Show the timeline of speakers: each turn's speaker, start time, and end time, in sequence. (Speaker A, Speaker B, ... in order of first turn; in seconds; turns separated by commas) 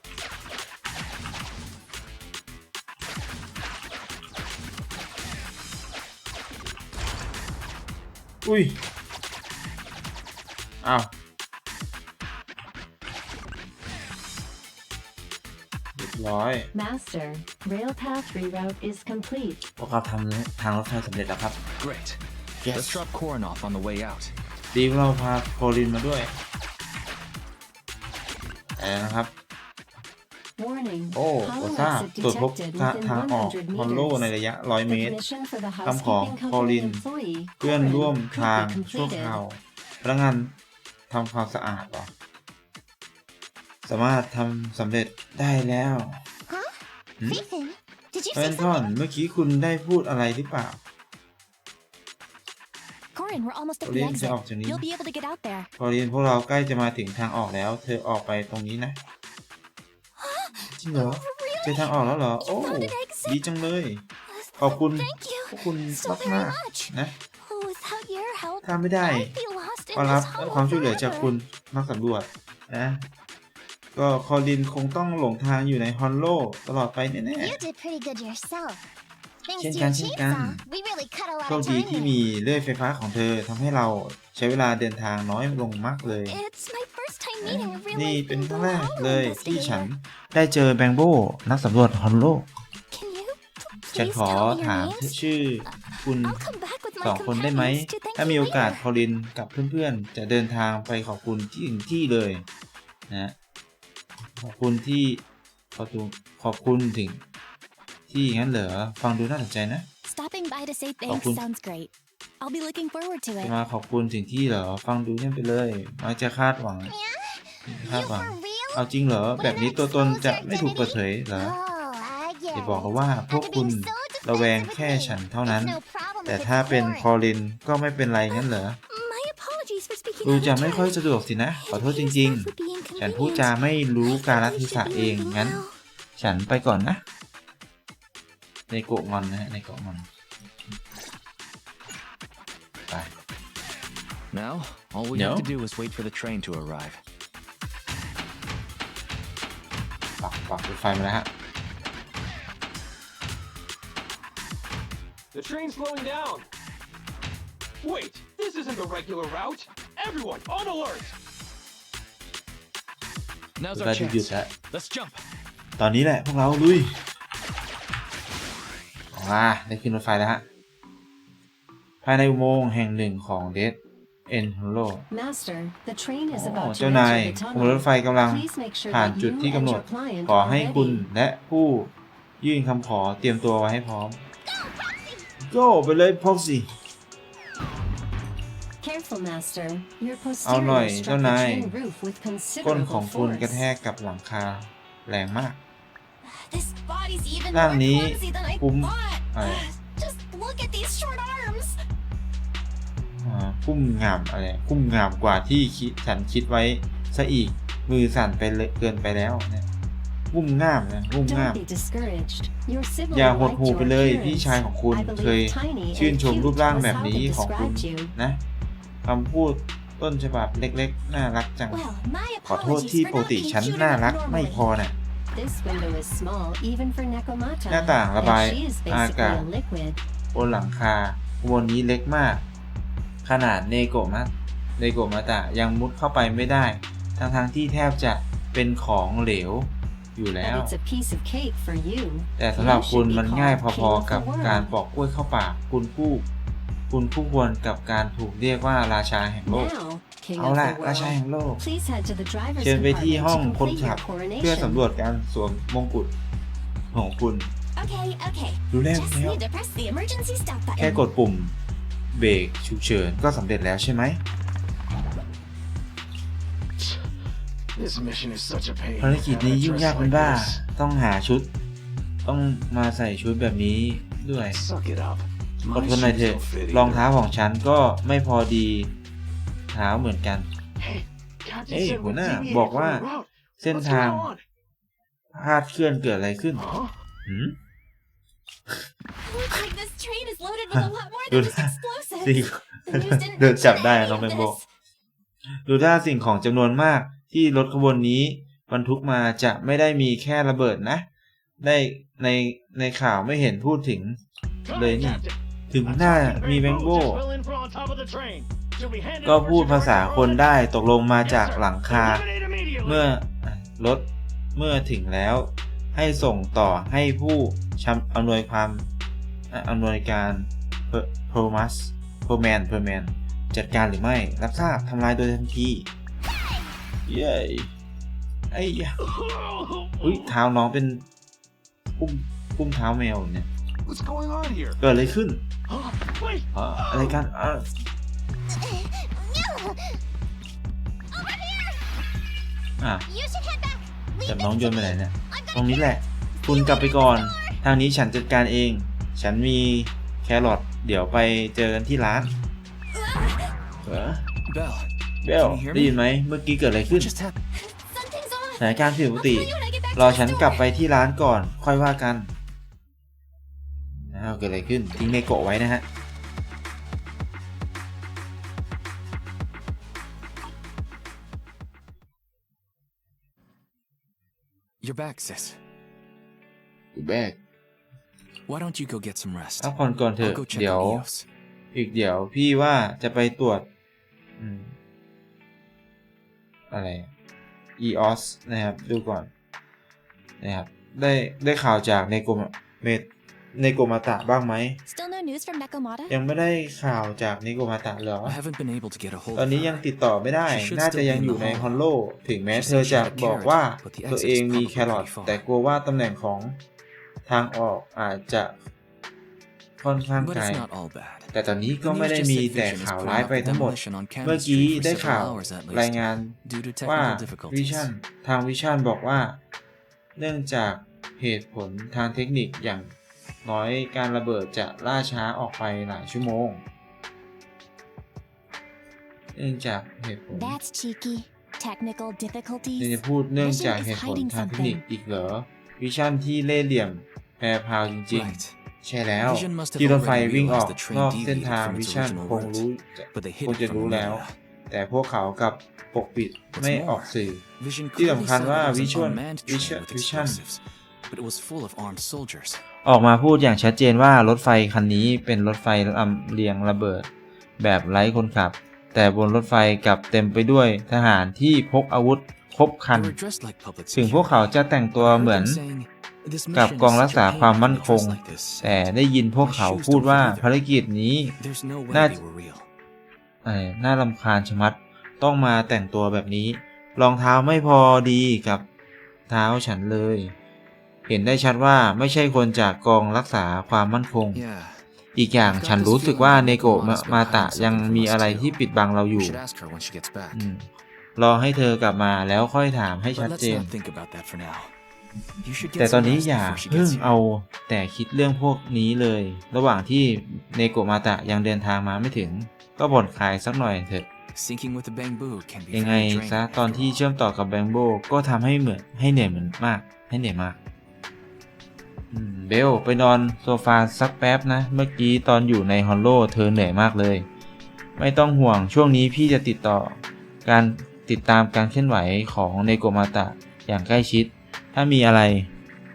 Speaker A: 8.4-8.8, Speaker A: 10.8-11.1, Speaker A: 15.9-16.7, Speaker B: 16.7-19.6, Speaker A: 19.8-21.6, Speaker C: 21.8-24.3, Speaker A: 22.6-23.0, Speaker A: 24.7-26.3, Speaker A: 28.8-29.3, Speaker B: 30.6-34.3, Speaker A: 31.1-35.2, Speaker B: 34.9-39.4, Speaker A: 35.8-37.0, Speaker A: 37.6-40.5, Speaker A: 41.1-42.1, Speaker A: 43.8-46.2, Speaker D: 46.5-49.0, Speaker A: 48.3-50.8, Speaker E: 53.1-55.7, Speaker A: 53.8-54.8, Speaker A: 55.8-59.0, Speaker E: 60.2-63.4, Speaker A: 60.7-64.0, Speaker E: 64.3-71.3, Speaker A: 64.6-67.1, Speaker A: 68.6-69.3, Speaker A: 69.9-73.0, Speaker A: 73.9-77.6, Speaker D: 77.4-78.8, Speaker D: 79.4-82.2, Speaker A: 79.6-80.6, Speaker A: 81.5-86.4, Speaker E: 86.3-89.9, Speaker A: 87.4-92.5, Speaker E: 92.9-98.8, Speaker A: 93.9-96.5, Speaker A: 97.0-102.5, Speaker A: 103.1-103.3, Speaker A: 104.4-105.2, Speaker A: 105.7-107.2, Speaker A: 108.1-109.9, Speaker E: 110.0-113.5, Speaker A: 111.1-111.4, Speaker A: 113.4-116.9, Speaker D: 116.8-118.8, Speaker A: 117.7-121.6, Speaker D: 119.4-127.1, Speaker A: 122.5-128.8, Speaker E: 128.3-135.7, Speaker A: 130.2-135.6, Speaker A: 136.2-137.0, Speaker A: 138.7-140.1, Speaker C: 144.3-147.0, Speaker A: 145.1-145.5, Speaker A: 150.2-151.3, Speaker F: 155.3-156.5, Speaker F: 157.8-161.1, Speaker C: 163.6-165.2, Speaker A: 163.7-164.5, Speaker A: 165.8-167.0, Speaker A: 169.1-170.4, Speaker A: 172.0-175.1, Speaker B: 175.1-181.1, Speaker A: 176.3-184.2, Speaker D: 184.4-185.3, Speaker A: 185.4-186.7, Speaker B: 188.8-193.6, Speaker A: 190.4-191.7, Speaker A: 192.6-195.6, Speaker E: 196.2-201.8, Speaker A: 197.5-199.7, Speaker A: 203.2-209.7, Speaker A: 210.3-211.6, Speaker B: 211.2-218.1, Speaker A: 213.1-218.4, Speaker A: 219.0-221.8, Speaker E: 221.7-224.6, Speaker A: 222.4-224.9, Speaker B: 225.3-230.0, Speaker A: 227.7-229.5, Speaker A: 230.3-232.4, Speaker A: 233.2-240.7, Speaker B: 240.4-244.7, Speaker A: 242.4-246.3, Speaker A: 246.9-249.7, Speaker B: 249.4-254.8, Speaker A: 250.3-251.7, Speaker A: 252.6-256.1, Speaker A: 256.9-257.5, Speaker E: 257.8-261.0, Speaker A: 258.7-259.4, Speaker A: 260.8-261.6, Speaker A: 262.1-264.2, Speaker F: 266.8-267.1, Speaker F: 267.8-270.6, Speaker A: 269.0-271.5, Speaker A: 272.2-274.6, Speaker F: 274.5-277.1, Speaker A: 275.7-278.9, Speaker A: 279.7-280.5, Speaker F: 280.8-284.4, Speaker A: 281.7-283.1, Speaker A: 283.6-284.3, Speaker A: 285.3-286.7, Speaker F: 286.5-286.9, Speaker A: 287.2-287.6, Speaker E: 289.2-294.6, Speaker A: 290.7-294.6, Speaker A: 295.5-301.1, Speaker A: 301.6-304.2, Speaker F: 304.6-310.5, Speaker A: 304.7-307.2, Speaker A: 309.2-312.2, Speaker F: 311.2-313.1, Speaker A: 312.8-318.9, Speaker A: 319.5-325.9, Speaker A: 327.1-327.7, Speaker A: 328.5-329.0, Speaker F: 329.0-330.3, Speaker A: 330.0-331.1, Speaker A: 332.0-333.5, Speaker F: 333.8-334.8, Speaker A: 334.8-335.4, Speaker F: 335.7-337.2, Speaker A: 336.5-337.6, Speaker D: 338.5-340.0, Speaker D: 341.1-341.9, Speaker A: 342.8-343.1, Speaker D: 343.1-347.6, Speaker A: 344.2-352.3, Speaker E: 352.9-353.5, Speaker A: 353.8-354.3, Speaker C: 354.5-356.0, Speaker A: 355.2-357.1, Speaker C: 356.9-357.4, Speaker E: 357.5-360.7, Speaker A: 358.6-362.4, Speaker A: 364.1-365.8, Speaker C: 374.8-375.6, Speaker A: 376.9-377.4, Speaker C: 378.5-381.2, Speaker A: 379.6-381.1, Speaker A: 381.7-383.7, Speaker A: 384.4-384.8, Speaker A: 386.7-387.1, Speaker A: 387.8-389.3, Speaker A: 390.4-394.8, Speaker E: 394.9-396.1, Speaker A: 396.1-398.4, Speaker C: 398.2-399.9, Speaker A: 399.3-406.6, Speaker C: 400.4-401.8, Speaker C: 402.5-405.4, Speaker A: 407.2-408.6, Speaker A: 409.8-410.6, Speaker C: 410.2-417.9, Speaker A: 411.3-419.4, Speaker A: 420.1-422.9, Speaker A: 423.4-426.6, Speaker A: 429.3-430.6, Speaker E: 430.3-434.8, Speaker A: 432.8-447.4, Speaker C: 438.1-438.5, Speaker C: 439.2-444.3, Speaker C: 446.5-452.6, Speaker A: 447.9-450.4, Speaker A: 452.8-463.2, Speaker C: 462.9-470.5, Speaker A: 463.9-465.6, Speaker A: 466.5-471.4, Speaker C: 471.4-472.7, Speaker A: 471.9-472.2, Speaker A: 473.4-478.6, Speaker A: 479.3-480.3, Speaker A: 481.1-484.4, Speaker C: 484.3-484.8, Speaker A: 485.1-489.4, Speaker C: 485.4-488.6, Speaker C: 489.1-490.4, Speaker A: 490.3-493.7, Speaker C: 493.1-494.7, Speaker C: 495.4-497.1, Speaker A: 495.7-504.1, Speaker C: 504.3-507.0, Speaker A: 505.7-510.6, Speaker A: 512.1-517.3, Speaker A: 518.0-525.5